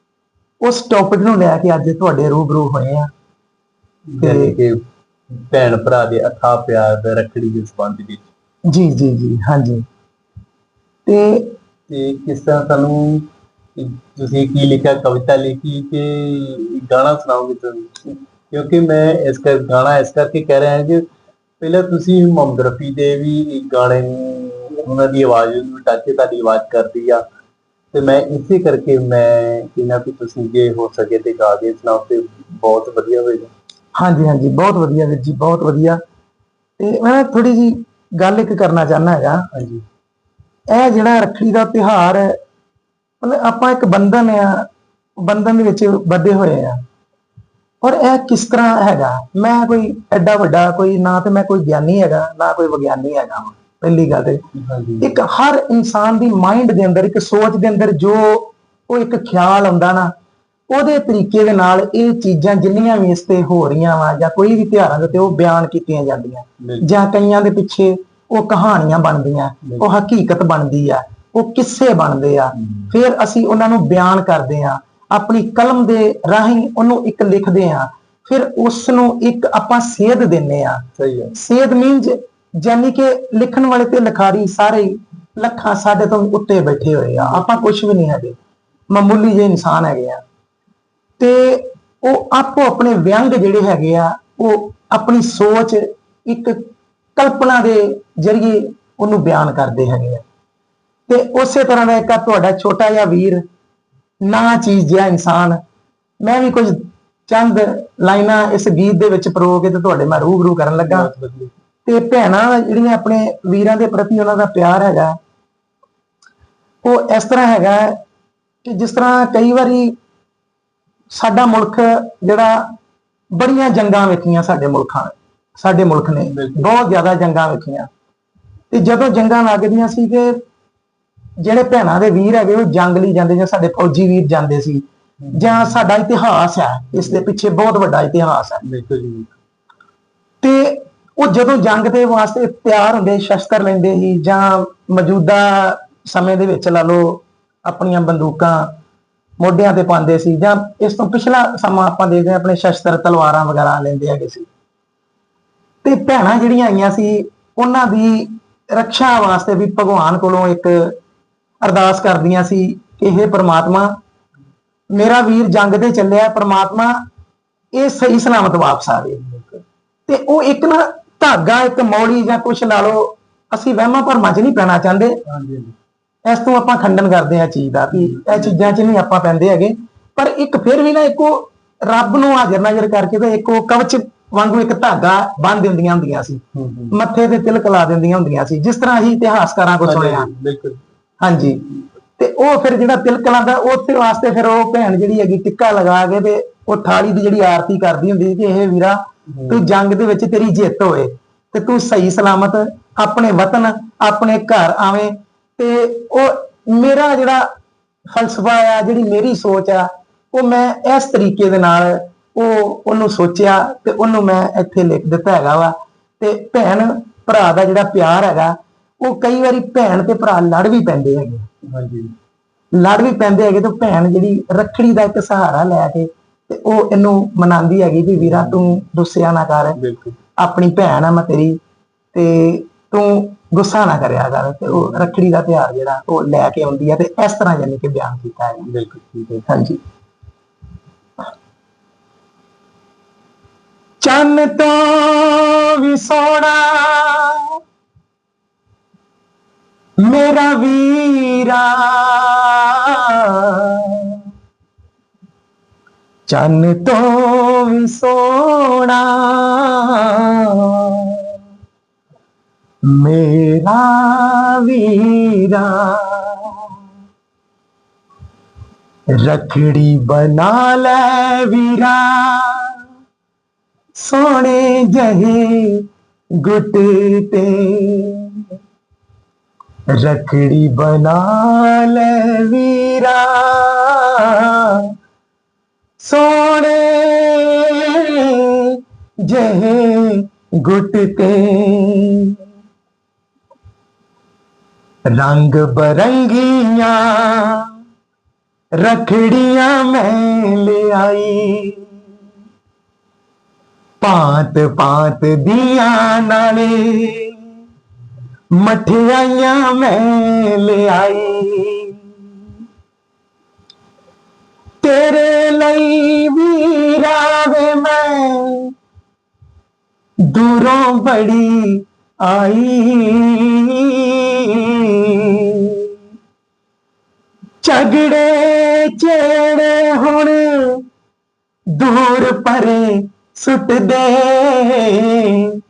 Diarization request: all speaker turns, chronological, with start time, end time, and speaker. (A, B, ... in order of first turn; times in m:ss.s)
0:00.6-0:03.1 A
0:04.1-0:08.3 B
0:04.2-0:04.6 A
0:08.7-0:09.8 A
0:11.1-0:11.5 A
0:11.9-0:21.0 B
0:21.6-0:27.2 B
0:27.9-0:33.5 B
0:34.0-0:36.0 A
0:36.8-0:39.5 A
0:39.5-0:39.8 B
0:40.7-0:42.4 A
0:43.2-0:44.7 A
0:45.2-0:46.8 A
0:47.8-0:54.4 A
0:54.6-0:55.2 B
0:55.0-1:00.1 A
1:00.7-1:28.4 A
1:06.6-1:06.9 B
1:12.6-1:12.9 B
1:21.0-1:21.3 B
1:27.2-1:27.5 B
1:28.9-1:30.2 A
1:31.2-1:40.2 A
1:41.1-1:43.4 A
1:44.2-1:45.6 A
1:46.2-1:51.1 A
1:50.8-1:51.6 B
1:51.9-1:55.2 A
1:56.8-1:58.0 A
1:58.6-2:00.0 A
2:01.1-2:02.7 A
2:03.4-2:07.9 A
2:06.2-2:06.7 B
2:08.7-2:10.4 A
2:11.4-2:18.6 A
2:15.2-2:15.8 B
2:17.0-2:17.2 B
2:18.6-2:19.4 B
2:20.4-2:28.7 A
2:29.4-2:34.5 A
2:35.8-2:41.0 A
2:41.6-2:43.9 A
2:44.9-2:47.0 A
2:47.8-2:49.2 A
2:49.2-2:49.6 B
2:50.1-2:55.2 A
2:55.3-2:55.7 B
2:56.2-3:10.3 A
2:57.9-2:58.7 B
3:06.6-3:07.0 B
3:09.8-3:10.8 B
3:11.2-3:11.7 A
3:12.2-3:27.5 A
3:19.3-3:19.6 B
3:28.1-3:41.5 A
3:41.7-3:42.1 B
3:42.8-3:49.8 A
3:48.2-3:48.8 B
3:49.7-3:50.2 B
3:50.4-3:51.6 A
3:52.1-3:58.6 A
3:54.7-3:55.1 B
3:58.6-3:59.5 B
3:59.5-3:59.8 A
4:04.0-4:07.5 A
4:10.0-4:14.2 A
4:16.3-4:21.2 A
4:22.8-4:26.7 A
4:29.1-4:32.7 A
4:34.0-4:35.8 A
4:36.4-4:38.4 A
4:39.9-4:44.8 A
4:46.0-4:52.4 A
4:55.1-4:57.7 A
4:58.8-5:01.8 A
5:04.0-5:07.4 A
5:08.6-5:12.0 A
5:14.8-5:18.7 A
5:20.3-5:25.8 A
5:27.6-5:30.8 A
5:31.8-5:35.5 A